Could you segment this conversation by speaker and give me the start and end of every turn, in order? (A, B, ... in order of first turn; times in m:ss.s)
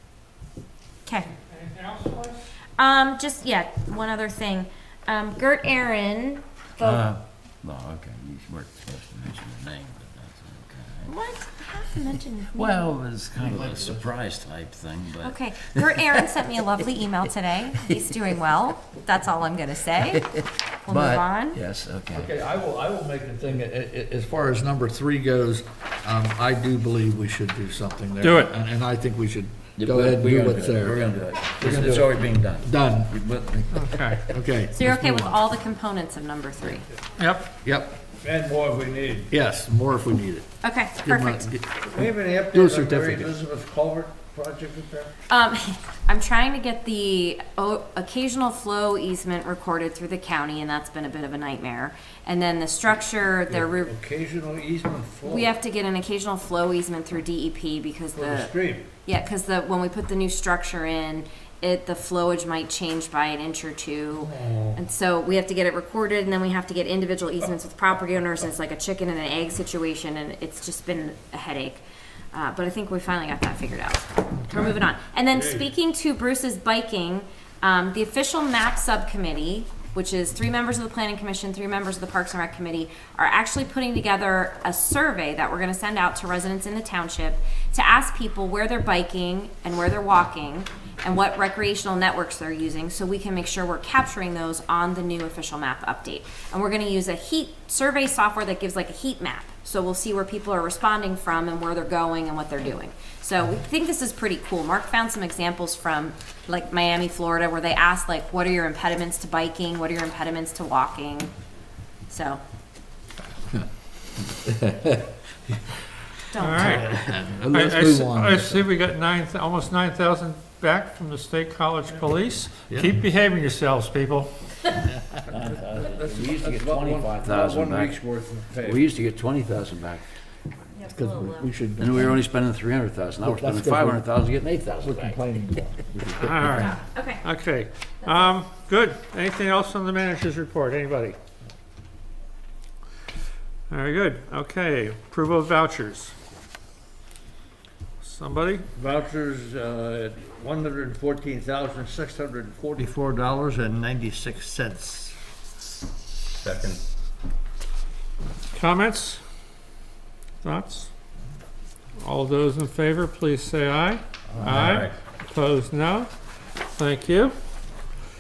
0:01.4-0:02.5 A
0:02.8-0:07.0 B
0:06.8-0:11.1 C
0:11.1-0:12.9 B
0:12.6-0:16.3 C
0:13.4-0:14.0 D
0:15.2-0:20.3 B
0:20.4-0:22.3 C
0:20.8-0:21.6 B
0:22.1-0:31.0 D
0:28.2-0:28.5 A
0:29.8-0:34.2 C
0:31.6-0:33.5 D
0:33.7-0:34.2 A
0:34.3-0:35.4 D
0:34.7-0:36.9 B
0:37.2-0:37.5 A
0:37.6-0:38.0 D
0:38.2-0:39.3 E
0:39.3-0:42.0 D
0:40.6-0:41.5 B
0:41.8-0:45.1 E
0:42.5-0:43.3 D
0:45.3-0:53.9 B
0:53.5-0:55.5 E
0:55.2-1:51.3 B
0:58.2-0:58.9 E
1:04.2-1:04.8 E
1:52.1-1:52.4 B
1:54.4-1:55.1 D
1:56.3-1:56.9 B
1:56.4-1:56.8 A
1:56.6-1:58.7 D
1:57.5-2:04.3 A
2:05.3-2:08.0 C
2:05.8-2:08.8 E
2:08.6-2:10.0 C
2:10.7-2:11.5 B
2:10.9-2:12.2 D
2:11.8-2:15.2 C
2:13.2-2:14.0 D
2:14.8-2:16.7 D
2:16.2-2:21.2 A
2:16.6-2:17.2 B
2:23.7-2:26.2 A
2:28.0-2:28.7 A
2:28.7-2:35.2 E
2:36.4-2:36.8 E
2:38.5-2:39.2 A
2:40.4-2:40.9 A
2:42.0-2:46.1 A
2:44.4-2:44.9 C
2:46.8-2:47.4 A